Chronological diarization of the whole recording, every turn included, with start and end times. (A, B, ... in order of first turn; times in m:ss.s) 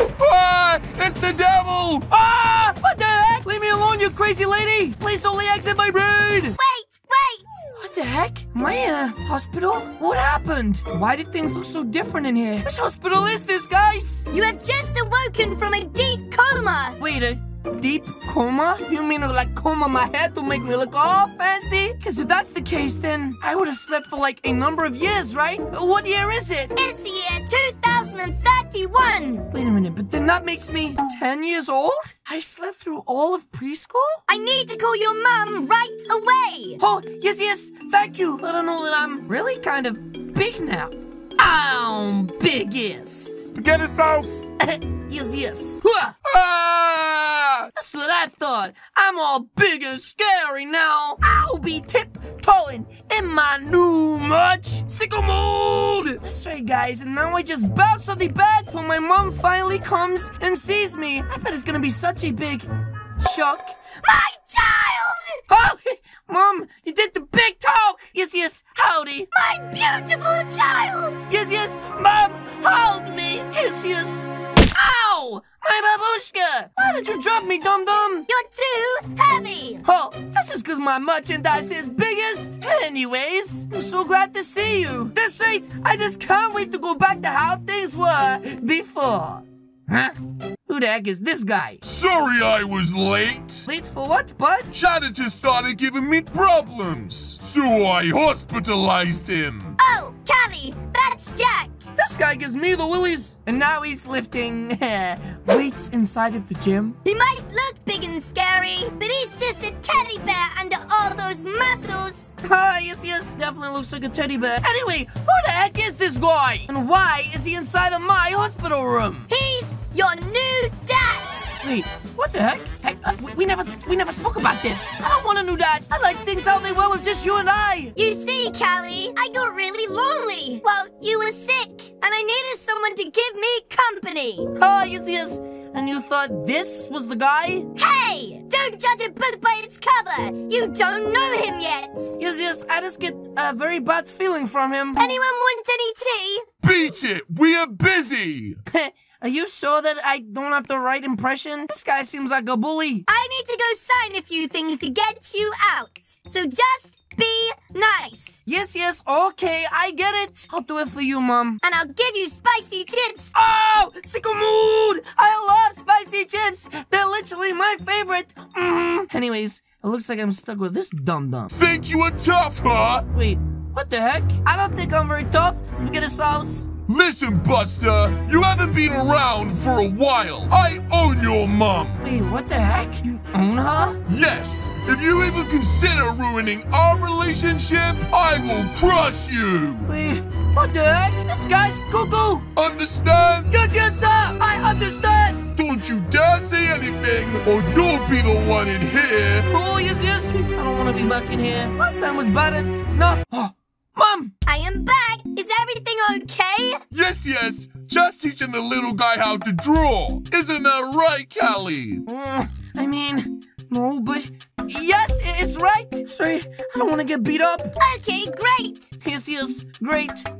0:00.2-0:02.1 A
0:02.1-0:06.6 B
0:06.6-0:07.6 C
0:07.7-0:14.3 B
0:14.3-0:17.0 C
0:17.0-0:26.7 B
0:26.8-0:29.5 C
0:29.5-0:34.2 B
0:34.3-0:36.8 C
0:36.8-0:43.5 B
0:43.5-0:44.5 A
0:44.6-0:46.2 B
0:46.2-0:47.7 A
0:47.7-1:03.8 B
1:04.0-1:05.4 C
1:05.5-1:09.3 B
1:09.3-1:11.2 C
1:11.3-1:18.3 B
1:18.3-1:19.8 C
1:19.8-1:31.8 B
1:31.8-1:33.7 A
1:33.7-1:34.7 B
1:34.7-1:39.8 A
1:39.8-1:41.8 C
1:42.0-1:47.0 B
1:47.0-1:52.3 C
1:52.4-1:59.3 B
1:59.3-2:01.5 C
2:01.6-2:07.9 B
2:08.0-2:14.5 C
2:14.6-2:17.7 B
2:17.8-2:22.2 C
2:22.2-2:25.0 B
2:25.0-2:26.4 C
2:26.6-2:28.6 A
2:28.6-2:33.0 B
2:33.1-2:38.4 C
2:38.4-2:41.6 B
2:41.6-2:43.3 C
2:43.3-2:51.5 B
2:51.5-2:53.0 A
2:53.1-2:56.7 B
2:56.9-3:02.0 A
3:02.0-3:04.0 B
3:04.1-3:09.9 A
3:09.9-3:12.5 B
3:12.6-3:13.5 A
3:13.5-3:15.4 B
3:15.6-3:19.4 A
3:19.5-3:24.3 B
3:24.5-3:26.8 C
3:26.9-3:32.0 A
3:32.0-3:37.7 B
3:37.8-3:38.9 C
3:39.0-3:40.2 B